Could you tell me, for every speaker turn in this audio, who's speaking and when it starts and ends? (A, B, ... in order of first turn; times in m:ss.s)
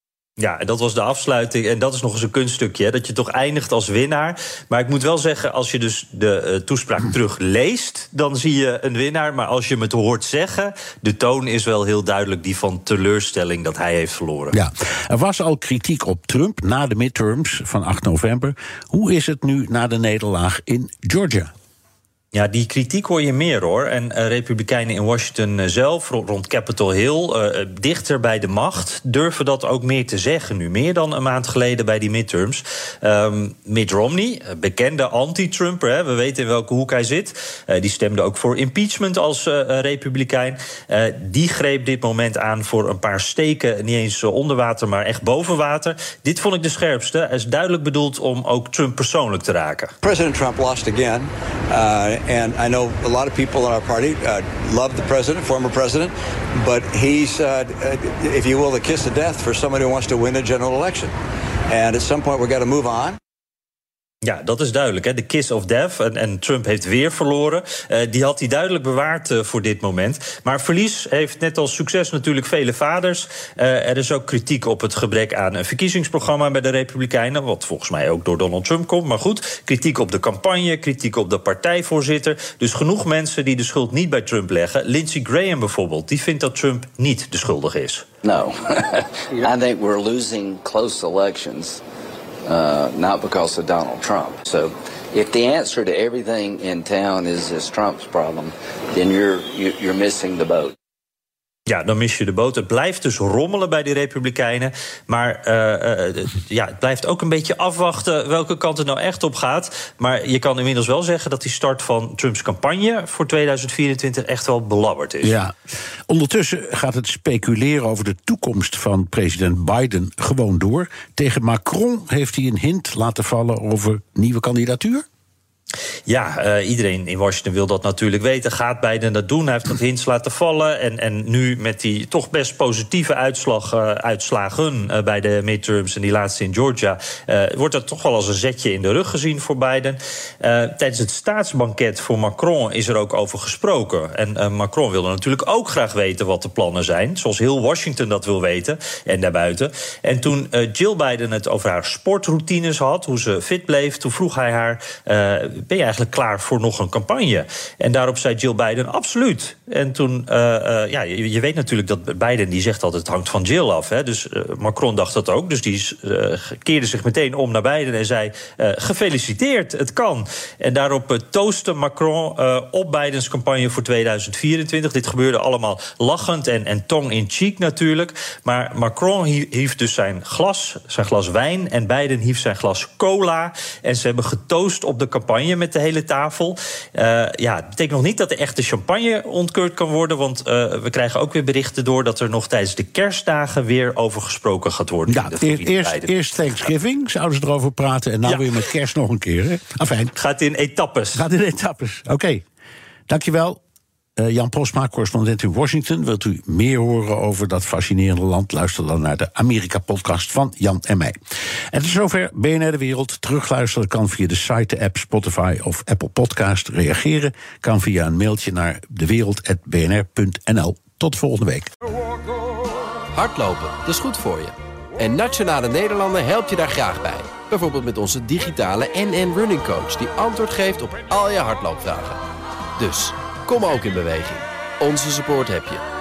0:00.4-0:14.5 A
0:14.5-0:21.5 B
0:22.3-0:50.0 A
0:50.0-1:01.1 C
1:01.7-1:03.2 C
1:04.2-1:28.0 A
1:28.2-1:31.8 D
1:32.4-1:40.7 D
1:41.7-1:55.3 A
1:55.2-1:55.5 B
1:56.1-2:05.0 B
2:06.1-3:16.1 A
3:15.1-3:20.1 B
3:20.2-3:21.2 A
3:21.1-3:22.4 B
3:23.1-3:23.6 B
3:24.2-3:31.2 B
3:31.7-3:41.7 B
3:43.1-3:52.2 E
3:52.8-3:55.8 E